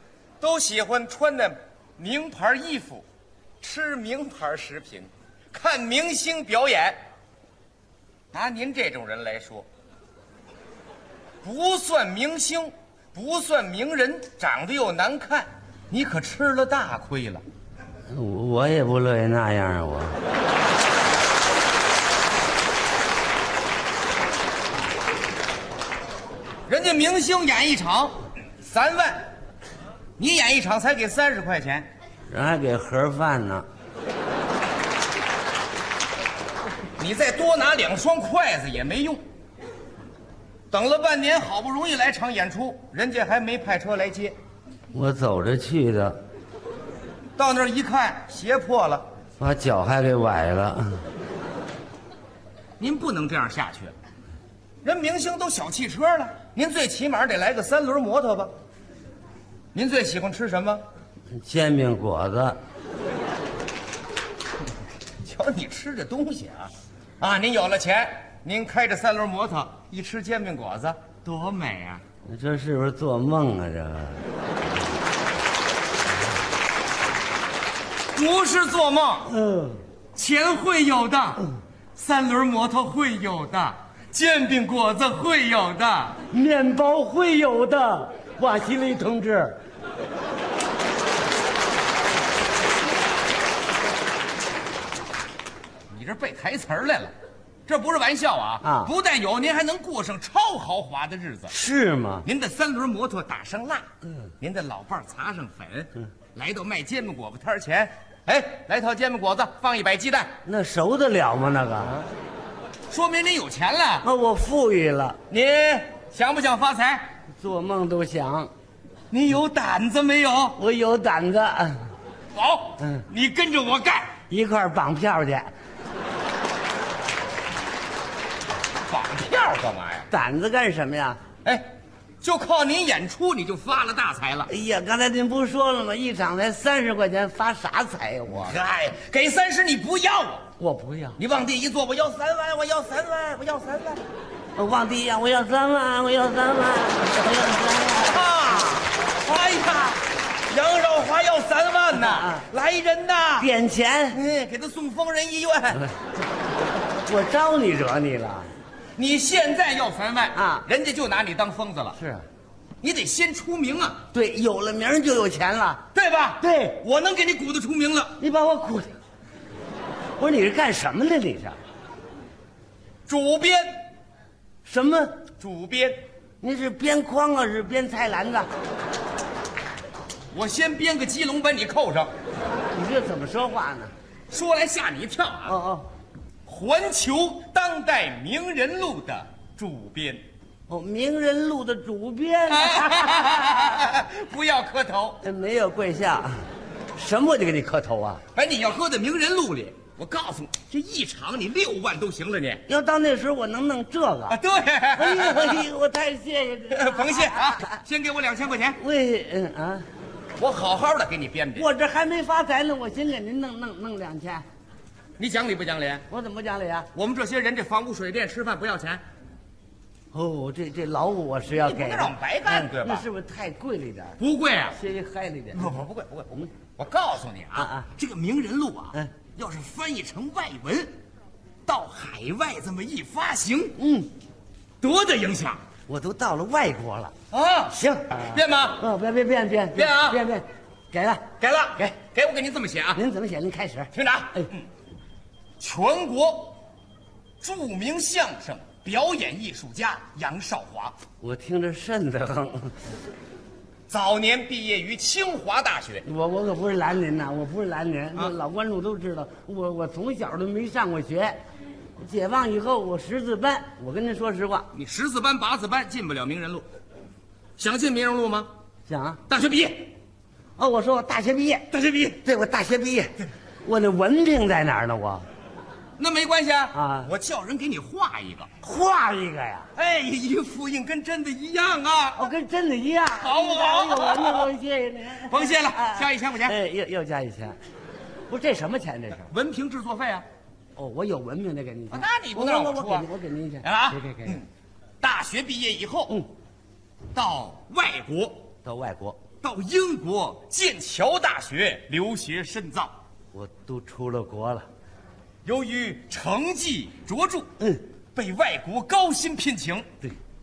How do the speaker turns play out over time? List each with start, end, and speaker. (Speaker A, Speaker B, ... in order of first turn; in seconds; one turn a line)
Speaker A: 0.4-3.0
Speaker A: 3.6-7.0
Speaker A: 8.3-9.7
Speaker A: 11.4-17.4
Speaker B: 18.1-20.2
Speaker A: 26.7-29.2
Speaker A: 30.2-31.9
Speaker B: 32.3-33.6
Speaker A: 37.0-39.2
Speaker A: 40.7-44.3
Speaker B: 44.9-46.2
Speaker A: 47.4-49.0
Speaker B: 49.4-51.0
Speaker A: 52.8-53.9
Speaker A: 54.8-58.5
Speaker A: 59.7-60.8
Speaker B: 61.3-62.6
Speaker A: 65.2-72.0
Speaker B: 72.2-74.2
Speaker A: 78.1-79.3
Speaker B: 79.3-79.8
Speaker A: 80.1-86.2
Speaker B: 86.3-89.6
Speaker A: 95.9-97.1
Speaker A: 97.7-101.5
Speaker B: 98.6-98.9
Speaker B: 101.5-102.3
Speaker A: 102.2-103.8
Speaker A: 104.4-110.3
Speaker B: 110.4-112.0
Speaker A: 112.9-114.1
Speaker B: 114.0-115.2
Speaker A: 115.3-117.1
Speaker B: 117.3-118.5
Speaker A: 119.1-120.6
Speaker B: 120.6-121.9
Speaker A: 122.3-124.2
Speaker B: 124.3-125.5
Speaker A: 128.9-130.1
Speaker B: 130.1-131.2
Speaker A: 132.2-134.5
Speaker B: 134.5-138.6
Speaker A: 138.3-140.5
Speaker B: 140.6-141.2
Speaker A: 141.2-144.0
Speaker B: 144.6-148.2
Speaker A: 148.0-153.5
Speaker B: 152.0-152.4
Speaker B: 153.4-154.2
Speaker A: 154.1-155.8
Speaker B: 157.0-158.5
Speaker A: 159.0-162.0
Speaker B: 160.3-160.7
Speaker B: 161.9-162.2
Speaker A: 162.8-164.0
Speaker B: 164.1-165.9
Speaker A: 165.9-168.2
Speaker B: 166.4-166.8
Speaker B: 168.2-168.9
Speaker B: 170.2-171.6
Speaker A: 173.1-173.7
Speaker B: 174.6-175.2
Speaker A: 175.4-176.0
Speaker B: 176.4-178.5
Speaker A: 180.3-182.1
Speaker B: 182.7-183.9
Speaker A: 184.3-185.6
Speaker B: 185.4-185.9
Speaker A: 186.4-190.2
Speaker B: 190.7-193.4
Speaker A: 192.5-195.2
Speaker B: 195.2-196.4
Speaker B: 196.9-198.2
Speaker A: 198.3-202.6
Speaker B: 202.7-204.4
Speaker A: 204.3-205.6
Speaker B: 204.9-207.8
Speaker A: 206.7-208.8
Speaker B: 208.8-209.8
Speaker A: 210.4-211.7
Speaker B: 211.6-214.4
Speaker A: 215.2-216.0
Speaker B: 216.1-216.9
Speaker A: 216.9-219.0
Speaker B: 220.1-224.2
Speaker A: 221.6-223.1
Speaker A: 224.2-224.8
Speaker B: 224.7-225.8
Speaker A: 225.5-230.9
Speaker B: 227.5-227.9
Speaker A: 231.7-233.8
Speaker B: 233.8-234.1
Speaker A: 234.8-235.6
Speaker B: 235.9-237.1
Speaker A: 237.3-238.8
Speaker B: 237.7-241.2
Speaker A: 239.7-240.2
Speaker A: 241.4-243.0
Speaker B: 242.9-244.4
Speaker A: 243.9-244.6
Speaker A: 245.6-246.6
Speaker A: 247.4-250.9
Speaker B: 251.2-252.8
Speaker A: 253.9-256.0
Speaker B: 256.0-261.4
Speaker B: 262.0-264.7
Speaker A: 264.7-266.6
Speaker A: 267.6-268.5
Speaker B: 268.9-269.2
Speaker A: 269.3-269.9
Speaker B: 270.6-271.7
Speaker A: 271.7-272.2
Speaker B: 272.2-275.2
Speaker A: 276.0-278.5
Speaker B: 276.7-277.1
Speaker B: 278.6-279.7
Speaker A: 279.7-282.3
Speaker B: 282.2-287.6
Speaker A: 283.1-284.5
Speaker A: 285.3-286.6
Speaker B: 288.3-289.3
Speaker A: 289.2-290.2
Speaker B: 290.8-294.4
Speaker A: 291.9-293.1
Speaker A: 293.6-294.5
Speaker A: 295.0-296.2
Speaker A: 297.1-298.5
Speaker B: 298.6-299.2
Speaker A: 299.4-302.9
Speaker B: 303.3-304.7
Speaker A: 305.4-307.5
Speaker A: 308.1-309.9